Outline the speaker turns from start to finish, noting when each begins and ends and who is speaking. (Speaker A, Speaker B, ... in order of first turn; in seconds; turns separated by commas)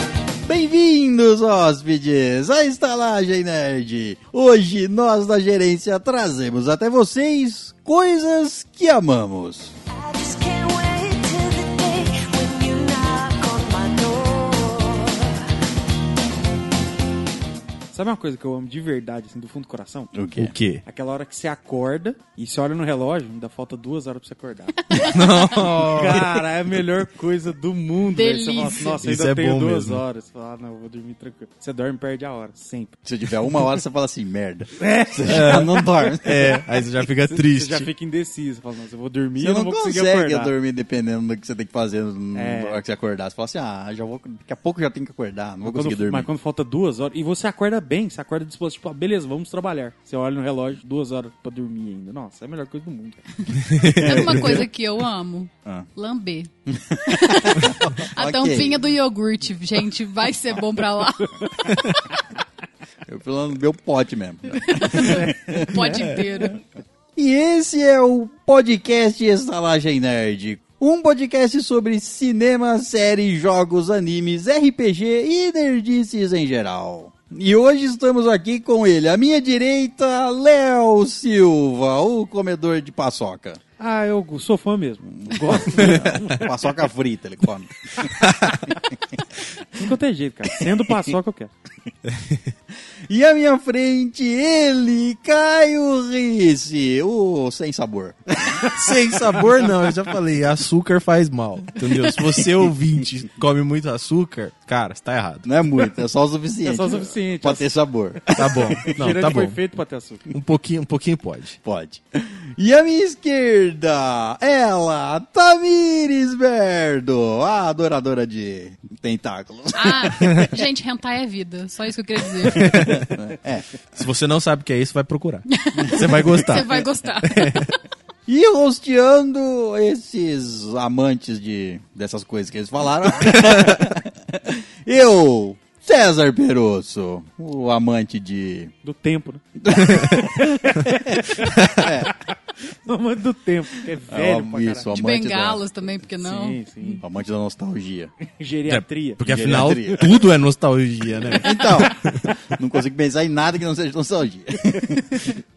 Speaker A: 0.4-9.7, Speaker B: 9.9-15.4, Speaker C: 17.9-20.1, Speaker A: 20.1-20.5, Speaker D: 20.4-20.8, Speaker C: 20.8-25.1, Speaker E: 24.9-25.4, Speaker D: 25.1-26.4, Speaker C: 25.8-33.0, Speaker E: 28.1-29.0, Speaker D: 29.0-30.0, Speaker A: 33.0-36.6, Speaker C: 34.8-35.8, Speaker D: 35.2-37.9, Speaker C: 37.3-40.5, Speaker A: 39.4-46.3, Speaker C: 42.3-42.8, Speaker C: 45.6-53.4, Speaker E: 53.5-56.5, Speaker D: 53.7-54.6, Speaker A: 54.0-54.7, Speaker A: 56.7-58.8, Speaker E: 57.0-62.2, Speaker A: 63.1-66.1, Speaker E: 64.6-66.6, Speaker C: 65.0-66.0, Speaker A: 67.2-83.6, Speaker C: 83.8-86.5, Speaker A: 85.1-88.3, Speaker D: 85.8-86.0, Speaker D: 88.2-88.6, Speaker C: 89.7-91.5, Speaker D: 92.1-92.4, Speaker A: 93.1-98.7, Speaker D: 98.8-105.5, Speaker A: 105.5-109.0, Speaker C: 106.6-107.7, Speaker D: 108.3-109.6, Speaker C: 108.8-110.3, Speaker D: 110.3-111.6, Speaker A: 111.6-120.5, Speaker E: 119.7-122.7, Speaker A: 122.5-123.7, Speaker D: 122.5-123.1, Speaker D: 123.9-127.7, Speaker E: 125.5-127.8, Speaker A: 125.8-126.1, Speaker A: 128.3-138.7, Speaker D: 133.3-133.8, Speaker C: 138.8-139.4, Speaker A: 139.6-140.8, Speaker D: 139.9-140.3, Speaker C: 140.7-141.2, Speaker D: 141.4-141.9, Speaker A: 141.8-142.1, Speaker C: 142.8-145.0, Speaker A: 144.1-145.6, Speaker E: 144.9-147.0, Speaker C: 146.2-147.0, Speaker A: 147.0-148.1, Speaker C: 148.3-150.3, Speaker D: 148.7-152.4, Speaker A: 149.2-150.3, Speaker A: 151.4-155.4